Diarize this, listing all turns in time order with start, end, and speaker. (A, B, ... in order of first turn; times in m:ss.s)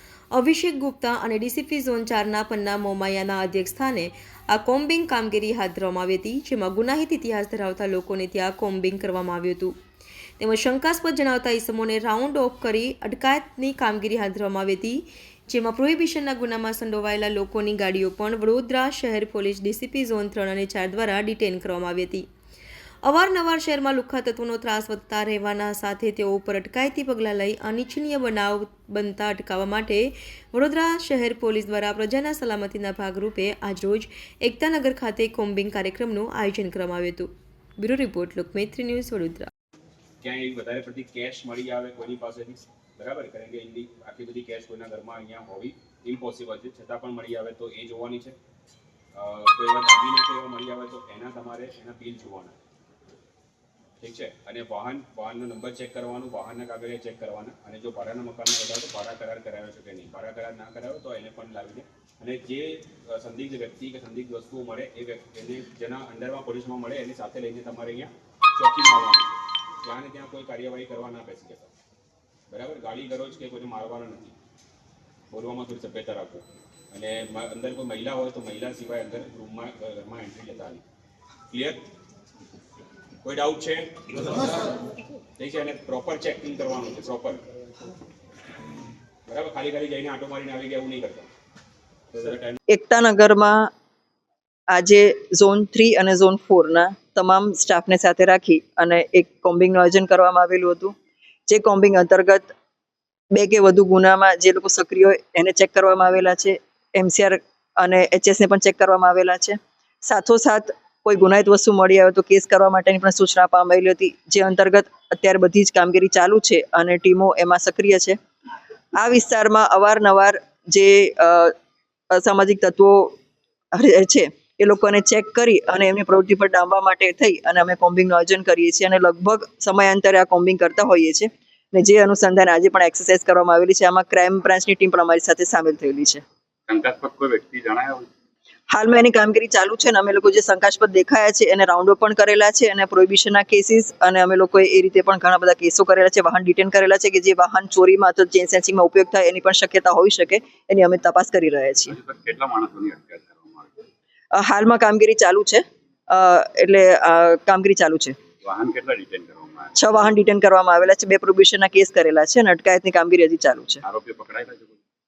0:00.3-0:09.7 A
0:10.4-0:22.2 A
0:23.0-0:37.3 A
0:37.8-0:39.5 A
0:40.2-0:48.4 B
0:49.2-0:52.6 B
0:54.0-1:11.7 B
1:12.5-1:14.4 B
1:15.3-1:20.8 B
1:21.5-1:21.8 B
1:23.2-1:24.5 B
1:25.4-1:27.4 B
1:29.3-1:31.3 B
1:32.1-1:32.6 B
1:32.7-1:33.7 C
1:34.7-1:40.9 C
1:41.5-1:42.5 C
1:43.3-1:58.2 C
1:58.9-2:01.5 C
2:02.1-2:03.2 C
2:03.7-2:16.2 C
2:16.7-2:18.1 D
2:18.7-2:31.9 C
2:31.9-2:33.9 D
2:34.3-2:38.2 C
2:38.4-2:39.8 D
2:39.8-2:43.8 C
2:43.8-2:44.8 D